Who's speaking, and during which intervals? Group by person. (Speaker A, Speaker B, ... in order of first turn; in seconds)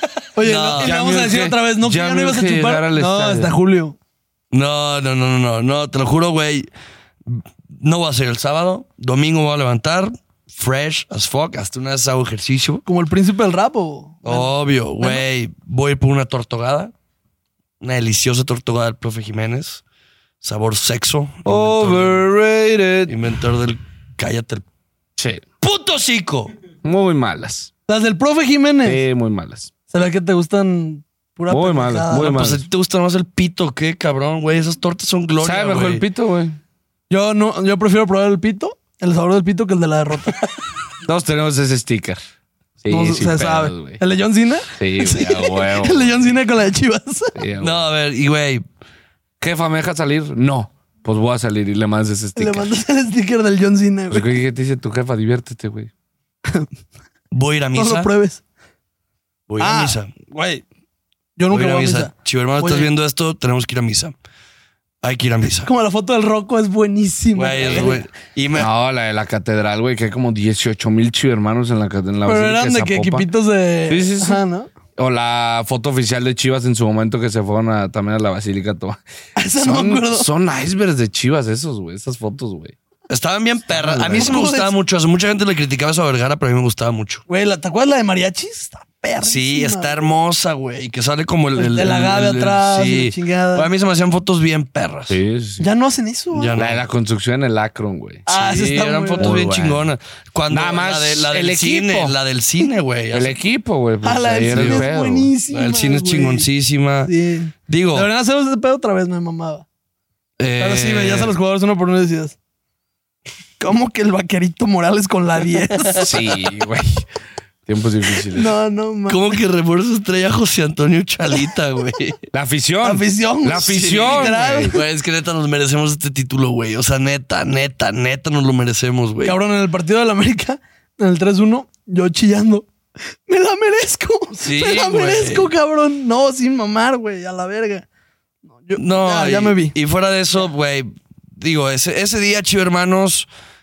Speaker A: 0.3-4.0, 12.9-15.2, 27.9-29.0, 29.9-32.4, 37.1-40.4, 42.9-47.4, 52.4-54.3, 57.8-58.4, 59.6-60.6, 61.4-62.9, 65.7-68.0, 72.2-74.7, 79.4-80.3, 84.1-84.7, 87.3-90.1, 91.5-93.7, 95.6-96.5, 98.3-99.4, 104.0-106.5, 107.0-109.7, 110.6-112.4, 113.6-116.1, 118.3-119.3, 122.8-124.8, 129.2-132.7, 133.3-137.9, 138.5-139.8
Speaker B: 0.4-0.9, 4.5-6.7, 7.3-12.8, 14.2-16.9, 17.8-19.8, 20.4-22.2, 23.1-24.6, 25.6-26.5, 32.1-36.0, 47.6-48.6, 57.3-58.1, 59.5-60.1, 61.5-64.1, 65.0-65.7, 67.3-68.7, 83.1-87.2, 89.2-95.2, 96.3-96.8, 98.3-103.4, 104.5-104.9, 105.5-107.1, 107.7-108.1, 110.4-111.3, 119.1-122.2, 123.7-129.4, 134.4-135.5, 138.8-143.3
Speaker C: 0.7-3.5, 21.4-23.2, 25.2-25.4, 26.8-27.7, 28.9-29.7, 31.5-32.7, 35.4-36.6, 41.0-42.2, 42.8-44.0, 44.8-46.2, 47.4-47.9, 49.4-52.7, 54.1-55.9, 68.5-73.3, 73.9-74.4, 75.0-79.0, 79.6-82.8, 83.7-84.4, 95.1-95.7, 96.5-98.2, 99.2-99.9, 100.5-102.2, 103.1-105.3, 116.0-117.1, 117.7-118.5, 122.3-124.8